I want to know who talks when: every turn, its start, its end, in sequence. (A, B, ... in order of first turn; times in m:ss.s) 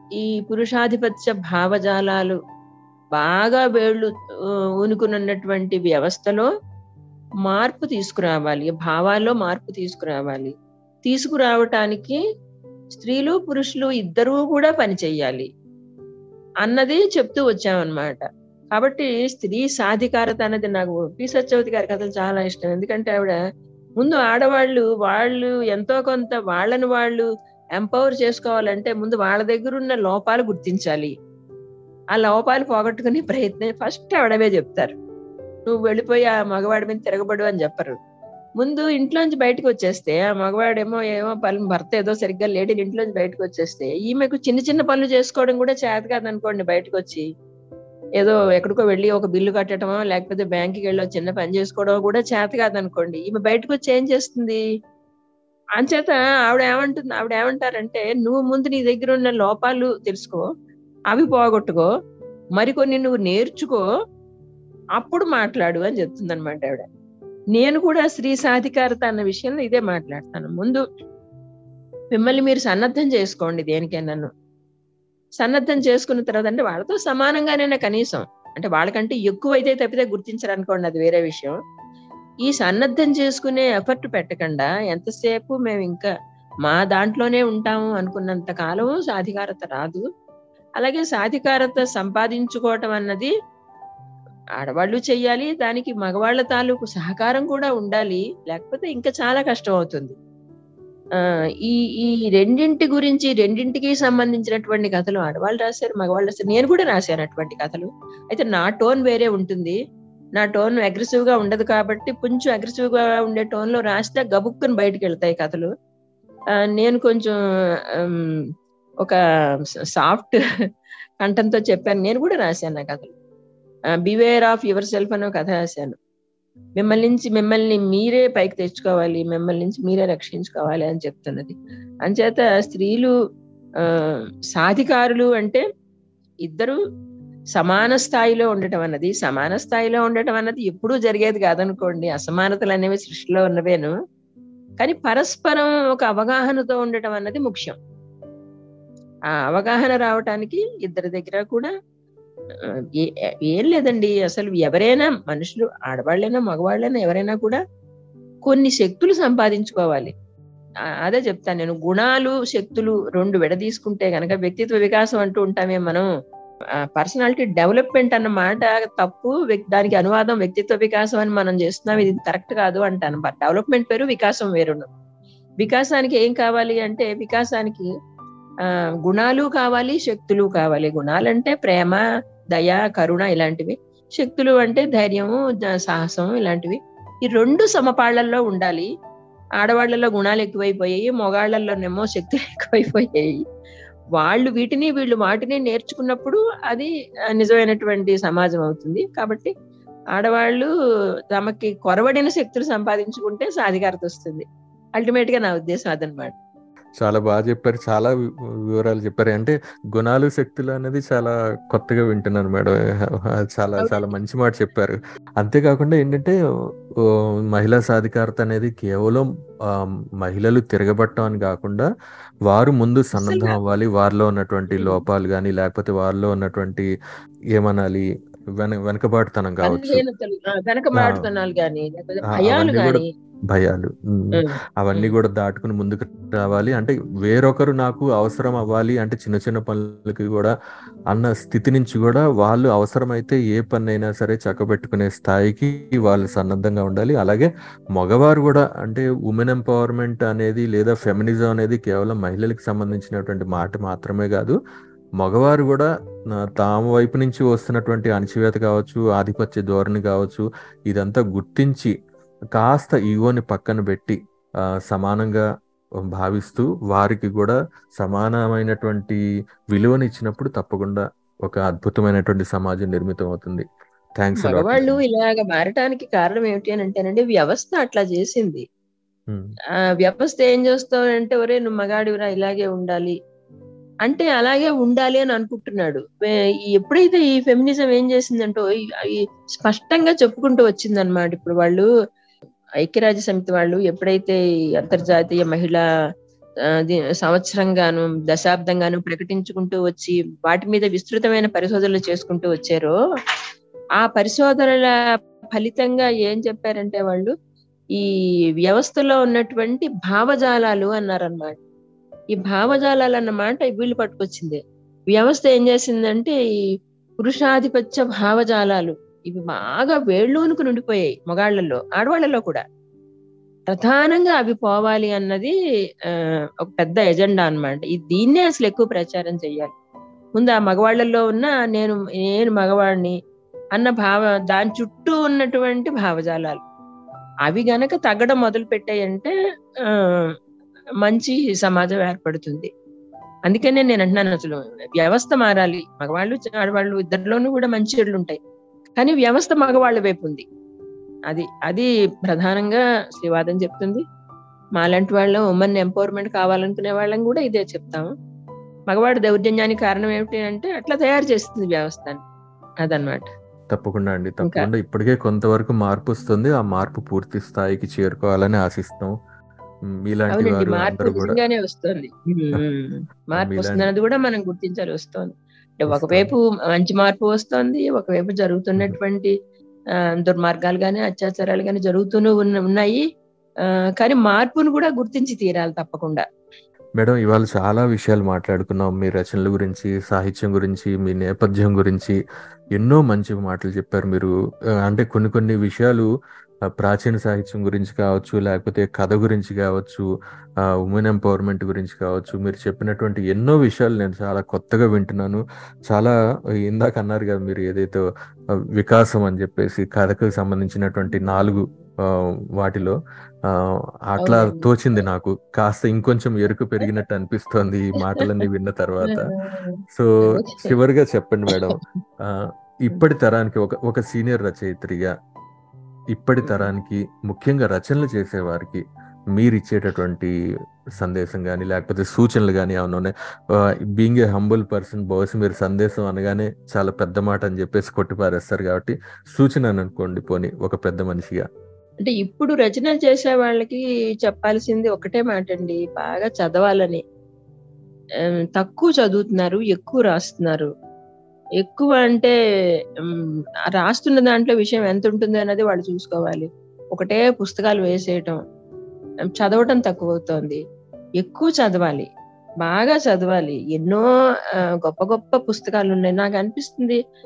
0:00.2-0:02.4 A
0:03.1-0:04.1 A
0:04.8-0:06.5 A
0:07.4-0:12.2 A
0:12.9-0:15.5 A
0:16.6-0:18.2 A
0:18.8-0:23.4 A
0:24.0-0:31.1 A
0:32.1-0:35.0 A
0:35.7-0:38.0 A
0:38.6-0:47.3 A
0:48.2-0:54.6 A
0:55.8-1:00.5 A
1:01.1-1:01.9 A
1:02.6-1:03.8 A
1:05.0-1:06.8 A
1:07.6-1:10.8 A
1:12.1-1:14.3 A
1:15.4-1:21.6 A
1:22.4-1:26.1 A
1:26.6-1:30.0 A
1:30.8-1:33.3 A
1:34.6-1:40.2 A
1:41.6-1:49.8 A
1:50.4-1:55.7 A
1:56.8-1:57.4 A
2:00.0-2:00.4 A
2:01.2-2:03.2 A
2:04.1-2:06.0 A
2:06.8-2:13.1 A
2:14.5-2:15.6 A
2:16.4-2:16.8 A
2:17.6-2:23.9 A
2:24.8-2:27.8 A
2:29.4-2:31.7 A
2:33.0-2:37.6 A
2:38.5-2:40.1 A
2:41.0-2:46.1 A
2:46.9-2:54.9 A
2:55.6-2:57.9 A
2:59.1-3:02.0 A
3:02.5-3:08.9 A
3:09.6-3:13.4 A
3:14.2-3:19.5 A
3:20.2-3:20.7 A
3:21.3-3:24.4 A
3:25.0-3:26.4 A
3:27.0-3:28.1 B
3:28.7-3:36.4 B
3:37.5-3:41.9 B
3:42.5-3:46.9 B
3:43.2-3:43.6 A
3:44.8-3:45.0 A
3:47.6-3:48.0 B
3:48.6-3:50.0 B
3:49.6-3:53.0 A
3:52.3-4:00.5 B
3:54.4-3:55.1 A
4:01.1-4:14.6 B
4:15.2-4:21.9 B
4:22.6-4:24.2 B
4:24.9-4:25.4 B
4:26.1-4:29.2 B
4:29.7-4:33.7 B
4:34.2-4:35.0 B
4:34.4-4:38.6 A
4:40.0-4:43.2 A
4:44.1-4:51.9 A
4:52.8-4:55.8 A
4:57.2-5:02.9 A
5:04.0-5:05.0 A
5:05.5-5:07.3 A
5:08.7-5:11.6 A
5:12.4-5:14.6 A
5:15.1-5:16.4 A
5:17.2-5:22.6 A
5:23.7-5:25.5 A
5:26.1-5:29.7 A
5:30.4-5:33.2 A
5:33.8-5:36.6 A
5:37.5-5:39.3 A
5:41.0-5:42.7 A
5:43.5-5:48.4 A
5:49.0-5:50.4 A
5:51.3-5:54.0 A
5:54.8-5:58.1 A
5:58.9-6:02.2 A
6:02.8-6:03.3 A
6:03.7-6:09.1 B
6:10.1-6:11.4 B
6:10.3-6:19.3 A
6:13.4-6:13.9 B
6:15.9-6:16.3 B
6:20.2-6:23.0 A
6:24.0-6:26.2 A
6:27.0-6:32.2 B
6:32.8-6:34.3 B
6:34.9-6:36.1 B
6:36.8-6:40.0 B
6:40.8-6:46.1 B
6:46.7-6:48.0 B
6:48.8-6:51.7 B
6:52.6-6:53.0 B
6:53.5-6:59.3 B
6:54.2-6:54.7 A
6:59.0-7:00.8 A
6:59.9-7:05.1 B
7:06.1-7:08.8 B
7:06.4-7:06.7 A
7:09.3-7:10.3 B
7:11.0-7:21.4 B
7:22.0-7:27.0 A
7:28.6-7:30.7 A
7:31.6-7:32.3 A
7:33.8-7:38.4 A
7:39.4-7:40.6 A
7:41.2-7:42.1 A
7:42.6-7:44.0 A
7:44.8-7:47.0 A